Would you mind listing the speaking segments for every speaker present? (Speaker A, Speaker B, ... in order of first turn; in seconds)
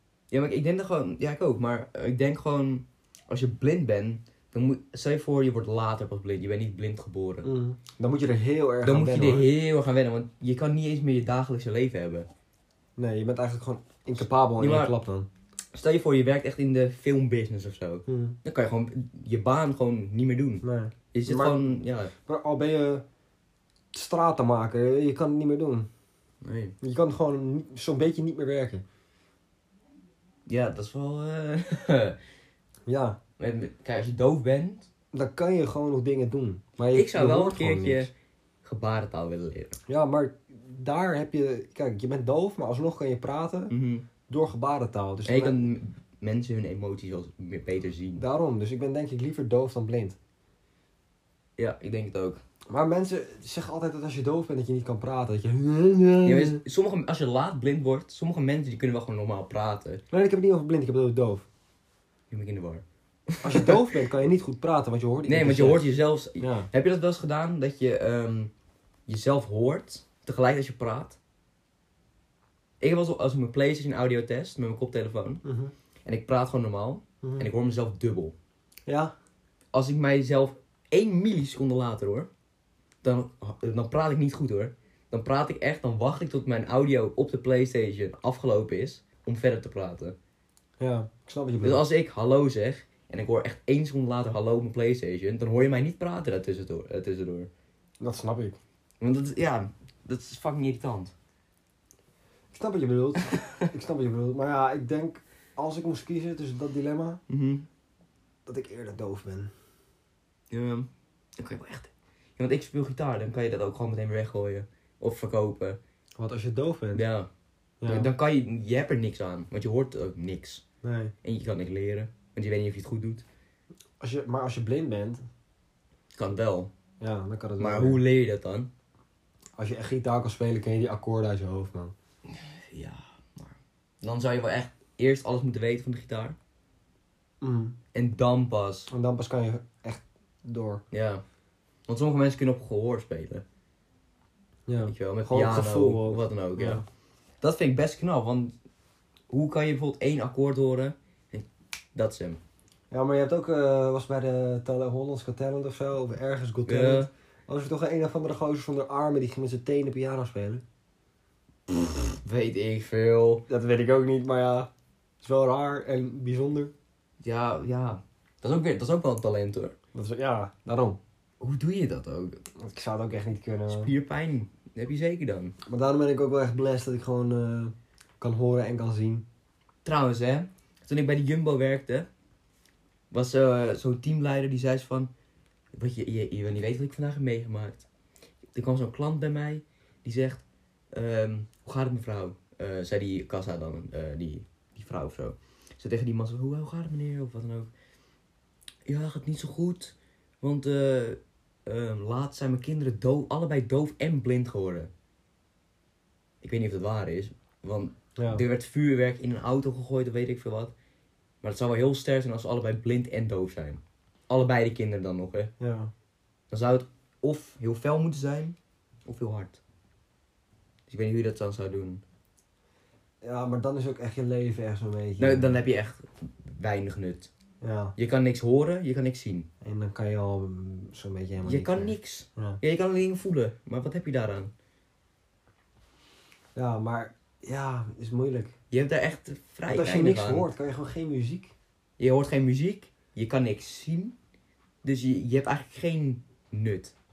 Speaker A: 0.3-7.5, 8.8-12.3, 14.6-14.9, 15.7-22.1, 26.4-26.8, 30.5-32.2, 33.4-34.9, 36.9-38.1, 38.6-39.8, 43.7-44.1, 45.3-48.2, 51.6-52.4, 56.2-60.0, 62.3-63.8, 65.3-68.5, 69.1-71.2, 72.8-75.4, 76.0-78.3, 79.7-82.3, 83.0-90.2, 91.6-97.5, 99.0-101.1, 103.3-103.7, 107.3-107.7, 110.5-115.8, 116.9-117.3, 117.9-120.6, 121.2-123.3, 126.2-126.7, 127.6-128.7, 132.3-136.4, 137.9-138.9, 140.9-141.2, 141.9-143.4, 144.9-146.8, 147.4-148.5, 149.3-152.4, 156.7-157.1, 162.2-163.4, 167.2-169.8, 171.4-172.4, 173.7-175.6, 179.8-182.1, 183.1-185.1, 185.7-187.9, 188.6-197.7, 198.9-204.9, 206.4-210.7, 211.4-215.5, 216.5-219.6, 220.9-222.0, 225.2-227.3, 228.0-229.5, 231.4-234.5, 238.7-240.5, 242.0-244.2, 244.8-246.9
Speaker B: 7.4-9.5, 13.0-15.3, 18.1-18.4, 20.6-23.0, 23.9-25.9, 26.8-28.9, 32.9-33.2, 35.1-38.1, 39.9-43.7, 44.3-45.6, 48.2-50.2, 52.7-56.6, 60.1-61.5, 63.4-66.7, 75.4-75.7, 77.2-77.5, 78.9-79.1, 90.8-91.8, 98.0-98.6, 102.5-107.2, 108.5-109.5, 116.2-117.0, 117.8-118.1, 120.8-121.1, 124.0-125.2, 127.0-128.0, 129.6-131.9, 137.4-137.8, 138.9-140.8, 144.7-146.8, 152.9-160.6, 163.5-164.7, 165.2-166.7, 169.9-171.0, 172.6-173.9, 175.7-179.3, 208.2-208.4, 215.6-215.9, 223.2-225.6, 227.6-227.9, 229.6-232.6, 236.6-238.5, 239.7-241.5